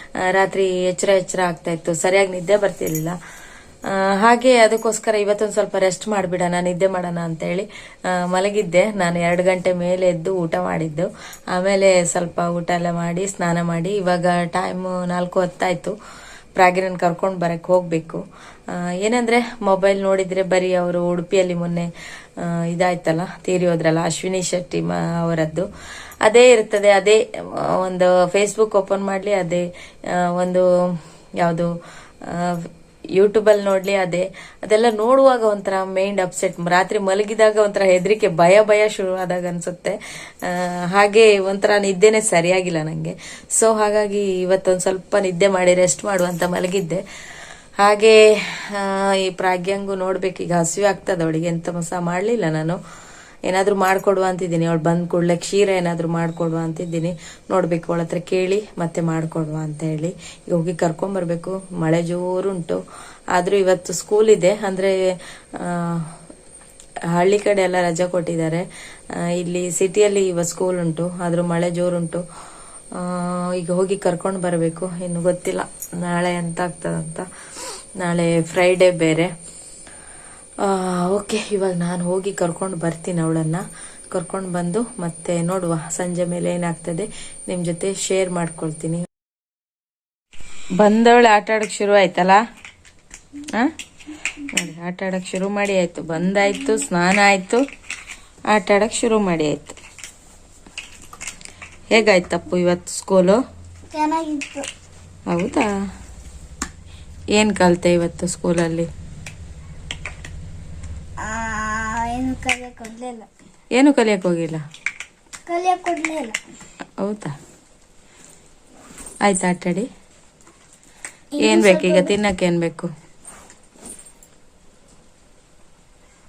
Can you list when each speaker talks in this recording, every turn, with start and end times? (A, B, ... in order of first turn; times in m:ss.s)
0:00.2-0:03.2 A
0:03.9-0:15.9 A
0:16.6-0:18.2 A
0:18.7-0:25.7 A
0:26.2-0:30.6 A
0:31.4-0:31.7 A
0:32.3-0:47.0 A
0:47.8-0:52.8 A
0:53.5-1:02.8 A
1:03.4-1:05.0 A
1:05.6-1:06.1 A
1:07.1-1:08.6 A
1:09.3-1:12.2 A
1:13.0-1:17.2 A
1:18.0-1:19.3 A
1:20.6-1:29.0 A
1:30.8-1:32.4 A
1:34.4-1:37.6 A
1:38.5-1:39.8 A
1:41.9-1:43.4 A
1:43.9-1:44.7 B
1:45.3-1:45.7 A
1:47.4-1:48.9 A
1:51.2-1:53.3 B
1:53.7-1:54.6 A
1:55.5-1:56.4 B
1:57.0-1:57.3 A
1:59.2-1:59.9 A
2:01.4-2:02.1 B
2:01.4-2:02.9 A